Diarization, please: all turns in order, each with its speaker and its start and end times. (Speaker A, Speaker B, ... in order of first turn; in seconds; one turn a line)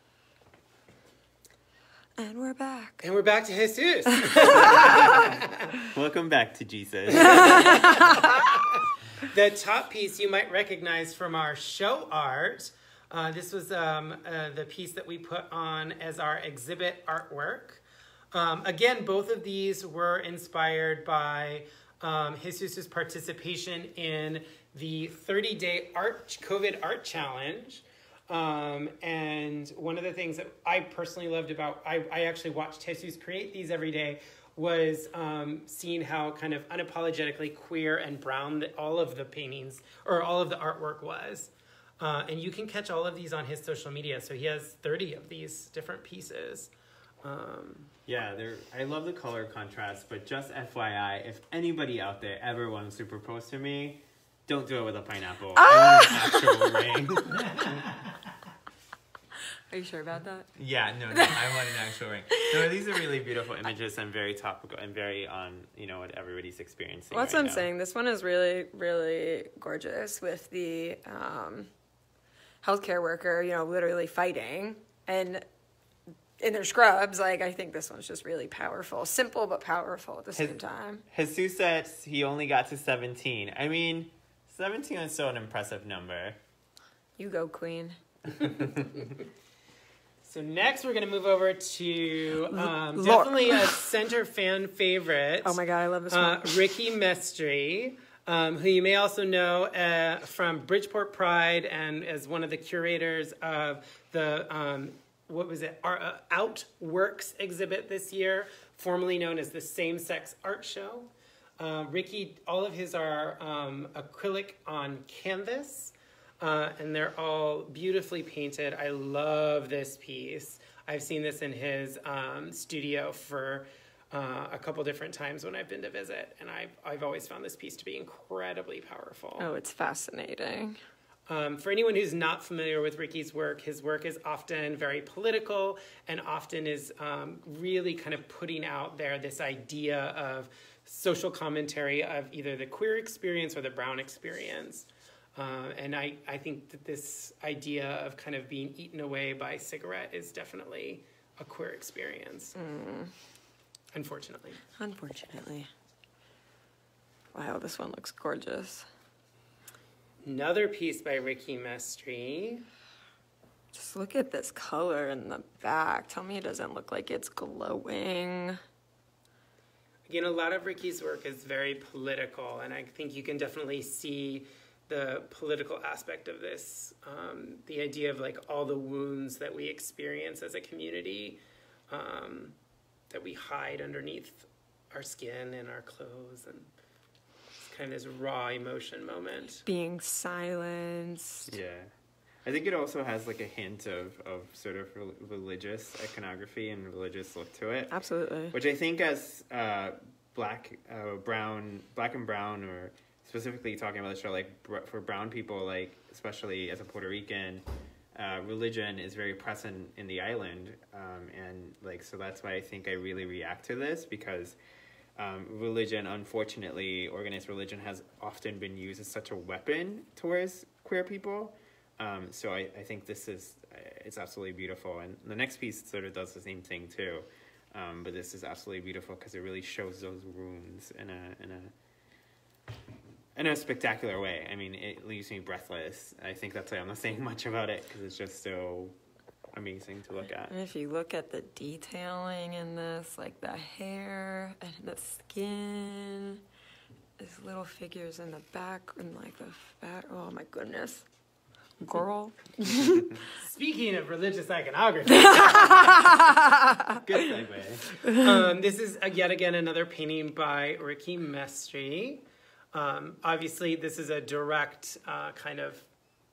Speaker A: 2.2-3.0
Speaker B: 3.0-5.7
Speaker A: 4.1-5.2
Speaker C: 4.5-7.8
Speaker B: 7.1-46.7
Speaker A: 7.2-8.4
Speaker B: 47.2-47.9
Speaker C: 48.1-57.8
Speaker A: 55.5-56.8
Speaker B: 57.4-58.2
Speaker A: 59.7-60.5
Speaker C: 60.5-67.7
Speaker A: 61.1-61.6
Speaker A: 67.1-71.7
Speaker A: 72.6-75.4
Speaker A: 76.4-81.0
Speaker C: 80.3-86.4
Speaker A: 87.2-88.0
Speaker C: 88.4-89.0
Speaker B: 90.2-129.5
Speaker A: 92.5-93.8
Speaker A: 95.4-96.6
Speaker A: 129.4-130.8
Speaker B: 131.3-152.6
Speaker A: 152.6-153.1
Speaker B: 153.9-154.6
Speaker A: 154.8-155.7
Speaker A: 157.3-158.9
Speaker B: 160.2-162.7
Speaker A: 163.7-168.6
Speaker B: 170.1-182.6
Speaker B: 183.1-186.7
Speaker B: 187.6-189.7
Speaker A: 189.7-191.5
Speaker C: 191.5-191.9
Speaker C: 192.4-197.9
Speaker A: 197.9-198.6
Speaker C: 198.5-214.6
Speaker C: 215.2-231.7
Speaker C: 233.4-238.9
Speaker C: 239.5-240.6
Speaker A: 240.5-246.4
Speaker A: 247.2-251.1
Speaker A: 251.8-253.2
Speaker B: 253.3-256.3
Speaker A: 255.1-257.0
Speaker C: 256.9-257.8
Speaker A: 258.0-258.4
Speaker B: 258.1-265.9